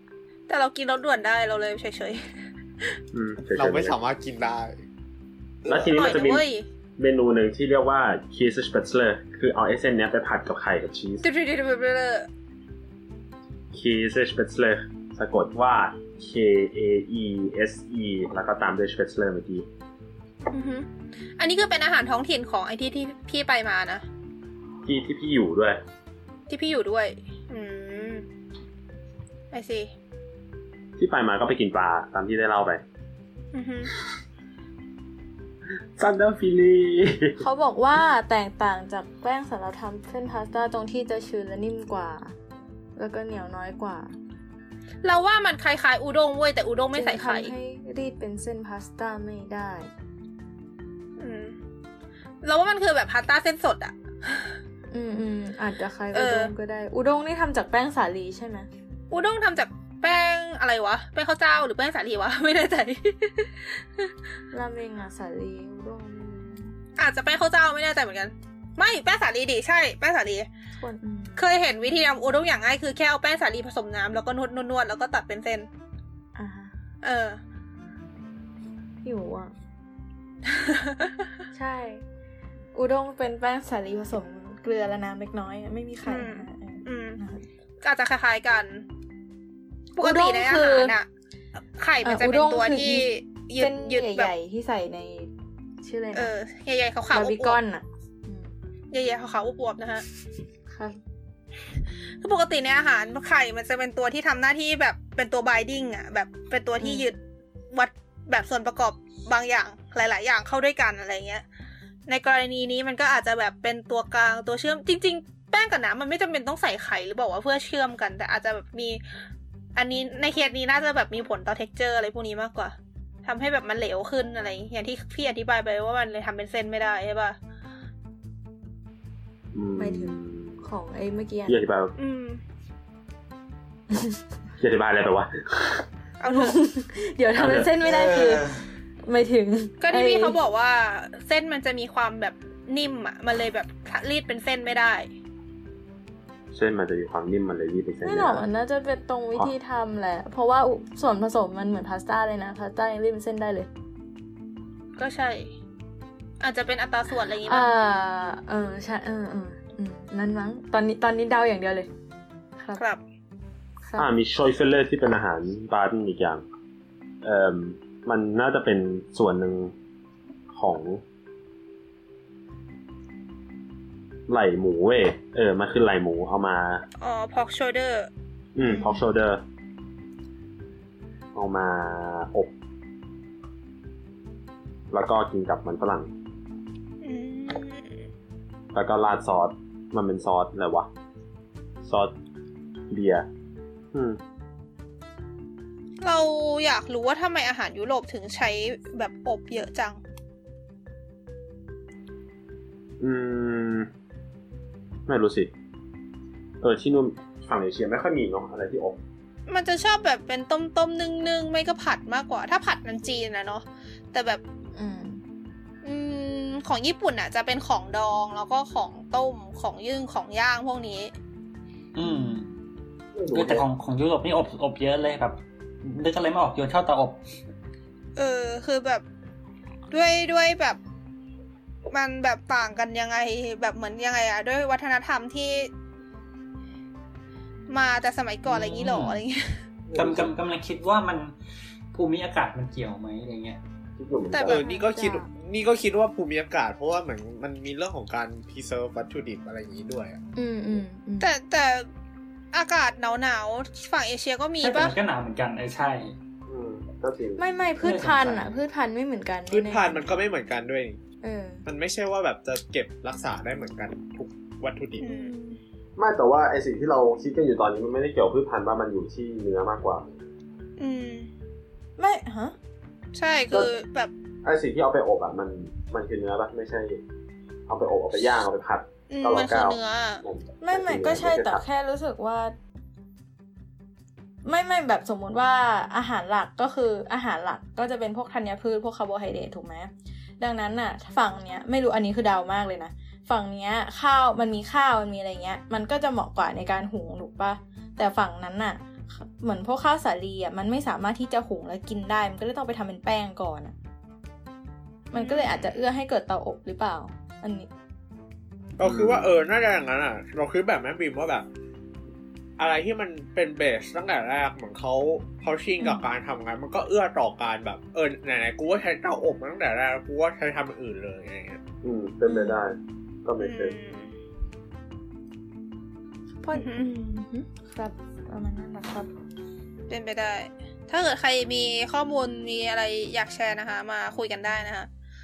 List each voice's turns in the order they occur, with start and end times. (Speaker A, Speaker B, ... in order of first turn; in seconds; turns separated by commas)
Speaker A: 0.5-2.3, Speaker B: 3.1-4.0, Speaker C: 3.5-4.8, Speaker C: 5.6-6.0, Speaker B: 5.7-11.3, Speaker A: 5.9-6.7, Speaker A: 11.2-12.3, Speaker B: 13.7-19.7, Speaker A: 20.5-24.0, Speaker B: 24.9-25.8, Speaker A: 26.5-28.2, Speaker A: 29.5-29.9, Speaker B: 31.0-32.8, Speaker A: 33.5-33.9, Speaker B: 36.0-37.4, Speaker D: 37.4-42.4, Speaker D: 43.0-44.1, Speaker A: 45.0-47.5, Speaker D: 46.9-49.9, Speaker A: 51.2-51.6, Speaker A: 52.4-54.5, Speaker D: 54.9-58.7, Speaker A: 56.1-56.5, Speaker A: 59.1-63.6, Speaker D: 64.5-66.7, Speaker A: 67.0-70.5, Speaker D: 70.8-71.4, Speaker A: 71.4-75.7, Speaker D: 76.4-76.7, Speaker A: 77.0-77.4, Speaker D: 79.0-79.5, Speaker A: 80.5-81.1, Speaker D: 81.5-82.0, Speaker D: 82.8-87.5, Speaker A: 86.0-87.2, Speaker A: 87.8-88.9, Speaker A: 90.0-91.1, Speaker D: 90.0-91.0, Speaker A: 91.8-94.3, Speaker D: 92.0-95.3, Speaker D: 95.8-96.3, Speaker A: 96.1-97.6, Speaker D: 97.1-98.5, Speaker A: 98.9-100.0, Speaker D: 100.7-101.0, Speaker A: 102.2-107.2, Speaker D: 106.8-107.1, Speaker A: 107.7-111.4, Speaker A: 112.1-119.0, Speaker A: 119.8-127.4, Speaker B: 129.5-130.6, Speaker D: 129.8-131.6, Speaker B: 131.5-131.9, Speaker A: 132.0-132.4, Speaker B: 134.6-135.8, Speaker A: 136.2-136.6, Speaker D: 136.3-138.4, Speaker B: 137.4-137.7, Speaker D: 139.0-140.4, Speaker A: 139.8-145.1, Speaker B: 146.5-148.4, Speaker D: 148.0-153.7, Speaker A: 155.0-155.5, Speaker A: 156.4-157.7, Speaker D: 157.4-161.9, Speaker D: 162.6-162.8, Speaker D: 163.9-164.1, Speaker B: 164.0-166.4, Speaker B: 167.2-169.7, Speaker B: 170.5-171.0, Speaker B: 174.3-176.8, Speaker A: 177.0-178.1, Speaker B: 178.6-179.4, Speaker D: 178.7-179.0, Speaker B: 181.3-182.5, Speaker B: 184.9-186.1, Speaker A: 187.0-187.9, Speaker B: 188.7-190.9, Speaker B: 191.8-192.1, Speaker B: 192.9-193.3, Speaker B: 193.9-194.2, Speaker A: 196.0-200.0, Speaker B: 203.0-203.9, Speaker B: 205.1-205.5, Speaker B: 206.6-209.0, Speaker A: 209.5-214.4, Speaker D: 214.8-215.2, Speaker A: 215.8-221.1, Speaker E: 221.9-222.5, Speaker D: 222.0-222.5, Speaker B: 223.2-223.7, Speaker E: 223.3-227.2, Speaker A: 228.2-229.0, Speaker A: 229.9-230.8, Speaker A: 231.9-235.7, Speaker A: 237.7-239.6, Speaker E: 238.5-239.2, Speaker B: 239.9-240.3, Speaker E: 239.9-241.3, Speaker E: 241.9-243.6, Speaker B: 244.0-244.6, Speaker A: 244.3-244.6, Speaker C: 244.4-250.2, Speaker D: 244.5-245.3, Speaker D: 250.4-251.3, Speaker A: 251.2-251.9, Speaker A: 252.5-254.9, Speaker E: 254.6-256.1, Speaker B: 256.5-257.4, Speaker D: 257.4-260.1, Speaker E: 257.8-258.5, Speaker C: 259.5-261.0, Speaker D: 261.2-261.6, Speaker C: 261.7-265.1, Speaker A: 265.0-265.6, Speaker B: 266.0-270.0, Speaker A: 270.8-271.3, Speaker D: 272.0-272.5, Speaker A: 273.1-274.1, Speaker B: 274.4-277.0, Speaker B: 277.7-281.6, Speaker A: 279.1-280.2, Speaker D: 280.6-282.6, Speaker D: 284.4-303.8, Speaker D: 305.1-307.7, Speaker A: 305.1-305.7, Speaker C: 308.8-311.5, Speaker B: 308.8-309.3, Speaker C: 312.6-321.6, Speaker D: 315.8-316.1, Speaker B: 321.8-323.8, Speaker D: 322.3-322.6, Speaker A: 323.4-324.1, Speaker D: 326.4-329.1, Speaker A: 326.5-326.9, Speaker A: 329.9-334.9